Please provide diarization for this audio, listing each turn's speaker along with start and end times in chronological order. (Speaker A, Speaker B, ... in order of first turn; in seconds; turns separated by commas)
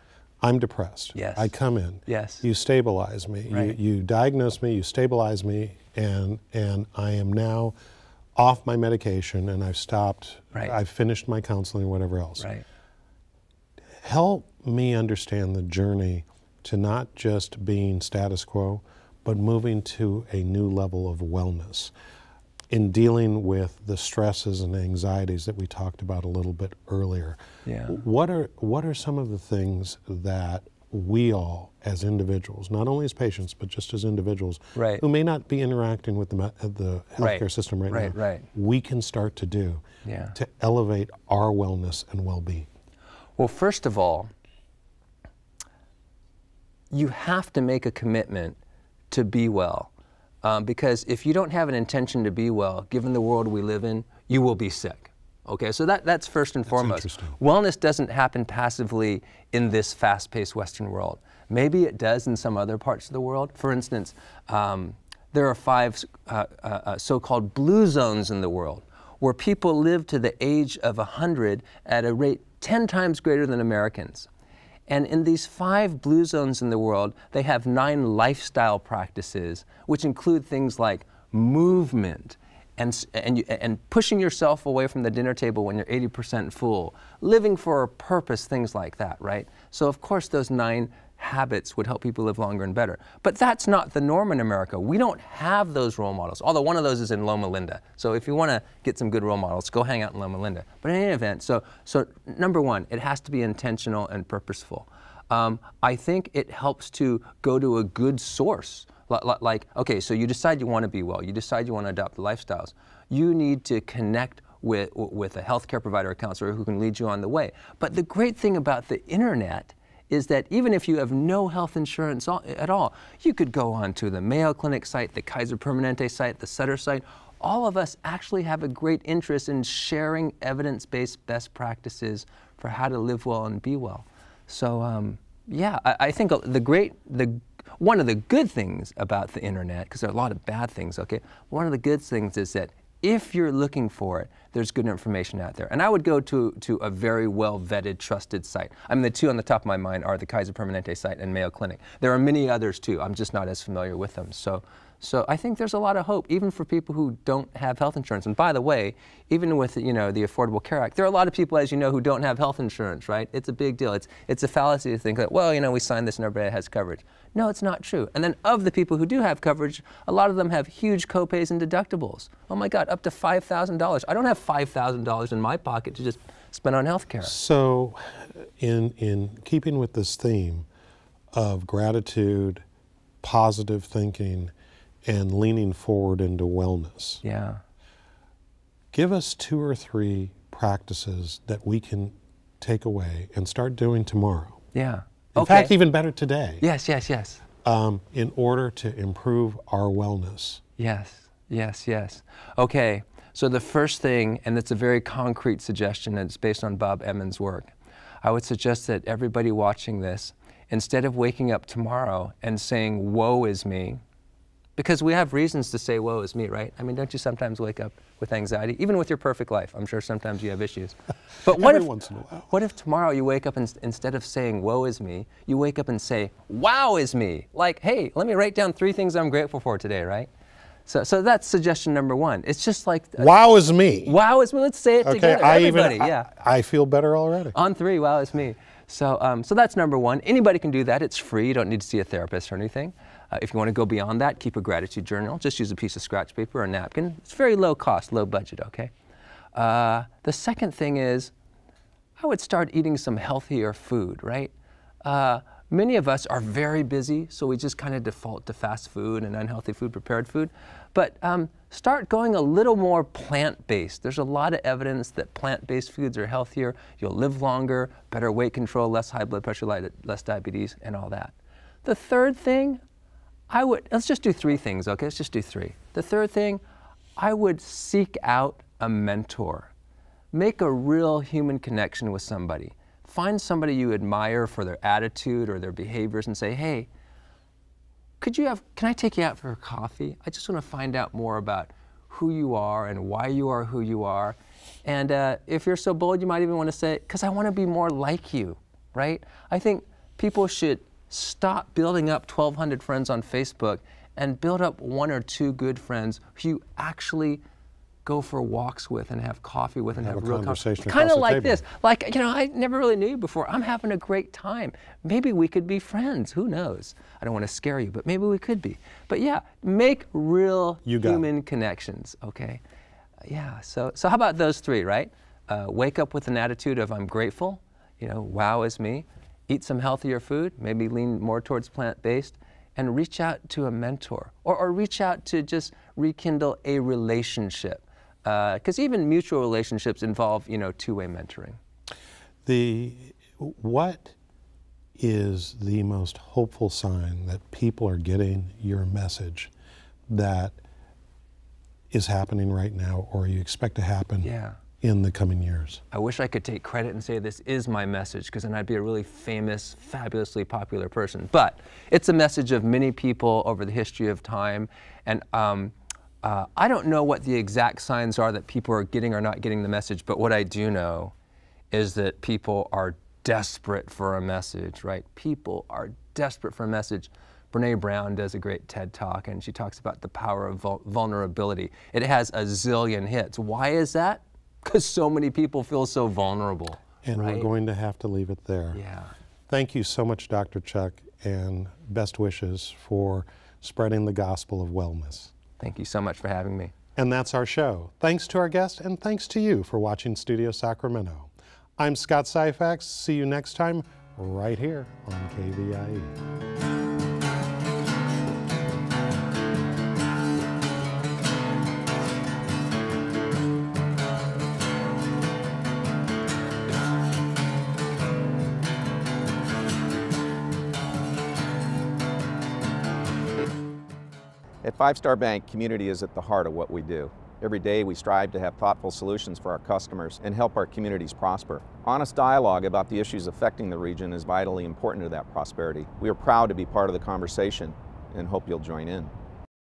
Speaker A: 0.4-7.7, Speaker B: 1.1-1.5, Speaker B: 2.0-2.4, Speaker B: 3.5-3.8, Speaker A: 8.3-12.5, Speaker B: 12.4-12.6, Speaker A: 14.0-21.9, Speaker A: 22.7-42.7, Speaker B: 27.6-28.0, Speaker B: 34.7-35.0, Speaker B: 37.2-38.5, Speaker B: 40.0-40.3, Speaker B: 43.4-44.3, Speaker B: 46.9-48.6, Speaker B: 49.1-49.9, Speaker B: 50.4-74.3, Speaker A: 56.7-57.4, Speaker B: 74.9-177.3, Speaker A: 177.2-180.7, Speaker A: 181.3-182.6, Speaker A: 183.2-187.2, Speaker B: 187.2-187.6, Speaker A: 188.9-194.6, Speaker B: 194.7-195.7, Speaker A: 195.3-196.6, Speaker B: 196.6-197.4, Speaker A: 197.6-200.6, Speaker B: 200.8-207.7, Speaker B: 208.2-214.0, Speaker B: 214.8-221.9, Speaker A: 221.4-222.5, Speaker B: 222.5-230.3, Speaker B: 230.9-233.3, Speaker A: 233.2-234.2, Speaker B: 234.0-236.3, Speaker A: 235.0-237.5, Speaker B: 237.5-248.9, Speaker B: 249.5-251.3, Speaker B: 252.2-254.5, Speaker B: 255.0-271.3, Speaker B: 271.8-272.8, Speaker B: 273.5-276.6, Speaker B: 277.2-279.7, Speaker B: 280.3-286.9, Speaker B: 288.2-307.4, Speaker B: 308.0-322.6, Speaker A: 310.0-311.6, Speaker A: 320.8-321.3, Speaker B: 323.2-341.6, Speaker A: 342.4-344.1, Speaker A: 344.9-349.5, Speaker A: 350.1-350.6, Speaker A: 351.9-354.3, Speaker B: 354.2-354.6, Speaker A: 354.8-355.8, Speaker B: 355.9-371.1, Speaker B: 371.7-387.5, Speaker A: 387.0-388.8, Speaker B: 388.7-389.1, Speaker A: 389.5-395.3, Speaker B: 395.6-396.7, Speaker A: 396.9-406.1, Speaker C: 424.6-439.1